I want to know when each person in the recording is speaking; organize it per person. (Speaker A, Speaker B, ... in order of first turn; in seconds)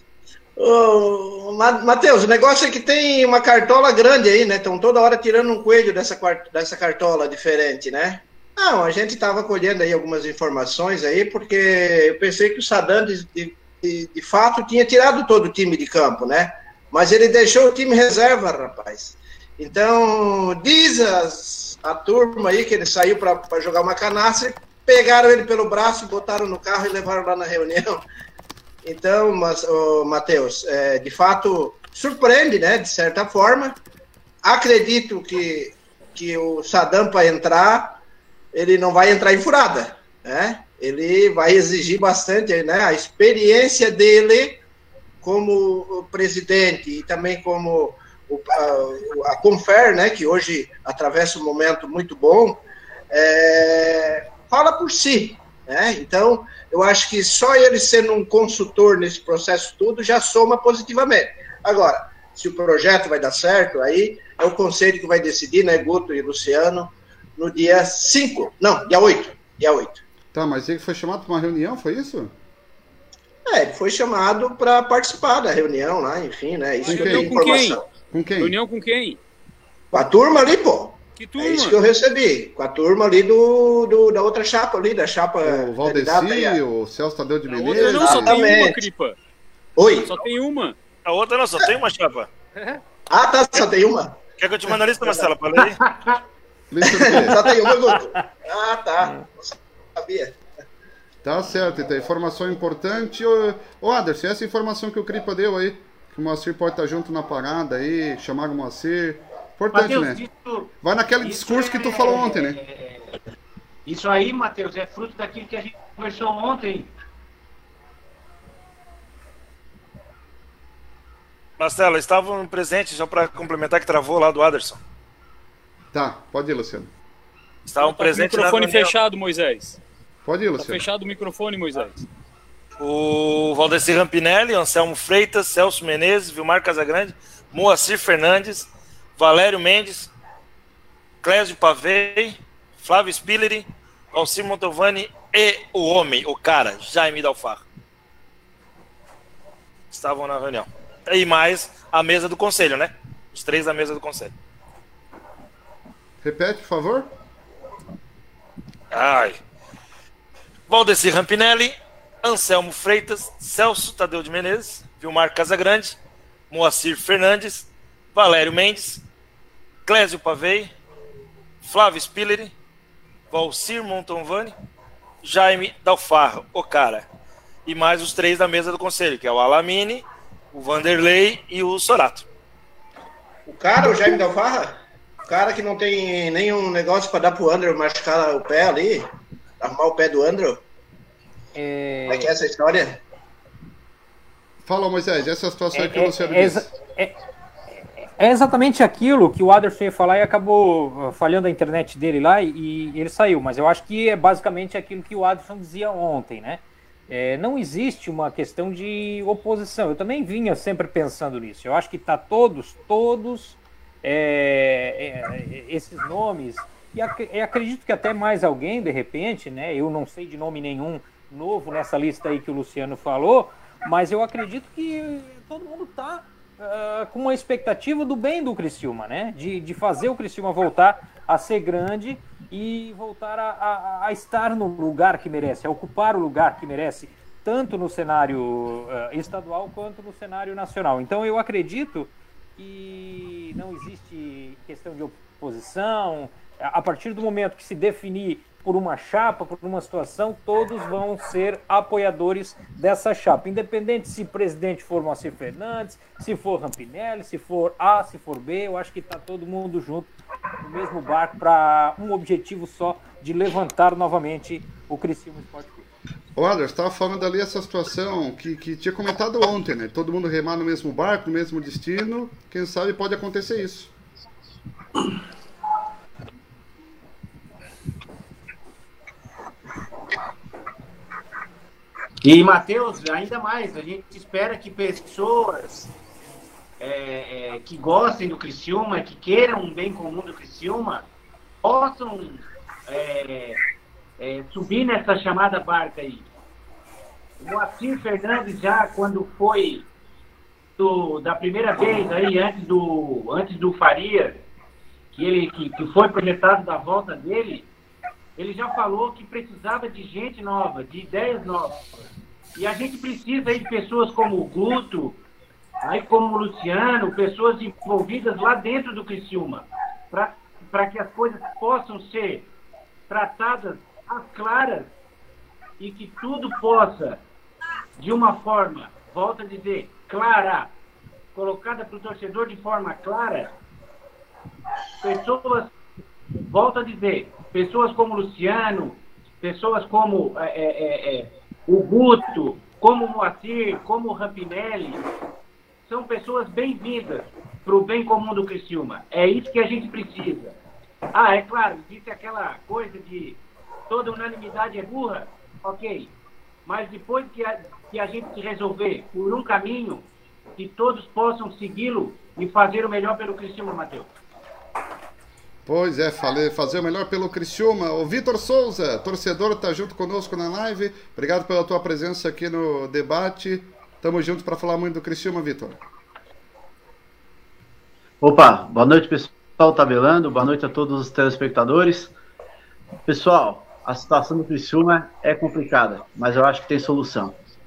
Speaker A: 0.6-28.0, 28.8-33.8, 34.4-38.0, 38.5-44.6, 45.2-70.0, 73.5-77.8, 79.9-86.6, 87.8-88.8, 89.8-90.2, 93.1-94.2, 96.8-100.3, 183.5-189.0, 189.6-190.6, 192.1-193.0
Speaker B: 70.3-72.3, 76.9-77.4, 78.1-78.5, 85.4-88.5, 96.7-97.4, 101.2-110.2, 110.8-112.6, 125.9-126.9, 130.2-130.8, 156.2-157.1, 194.6-196.7, 266.3-273.9, 365.6-375.8
Speaker C: 76.8-77.8, 78.4-79.2, 81.2-81.8, 87.5-89.1, 90.0-90.7, 92.5-92.8, 127.8-129.8, 130.6-132.0
Speaker D: 91.0-92.3, 94.4-95.8, 121.6-124.8, 127.7-128.9, 132.8-140.1, 141.2-147.6, 149.9-154.3, 158.9-159.4, 160.7-166.0, 166.5-169.0, 169.8-170.7, 171.6-172.5, 173.3-174.5, 175.2-177.1, 177.7-182.2
Speaker E: 95.8-96.2, 109.7-113.2, 113.8-116.9, 282.2-285.9, 286.8-291.1, 291.6-293.6, 294.2-296.3, 297.4-299.9, 300.8-304.4, 305.1-307.7, 308.4-315.2, 315.8-322.5, 323.1-324.9, 325.8-327.2, 328.0-330.7, 331.3-333.5, 335.0-335.7, 336.5-345.0, 345.9-350.5, 351.1-356.1, 356.6-360.1, 360.6-364.1
Speaker F: 191.5-192.3, 195.7-197.2, 198.0-265.8
Speaker G: 378.2-382.1, 383.1-387.4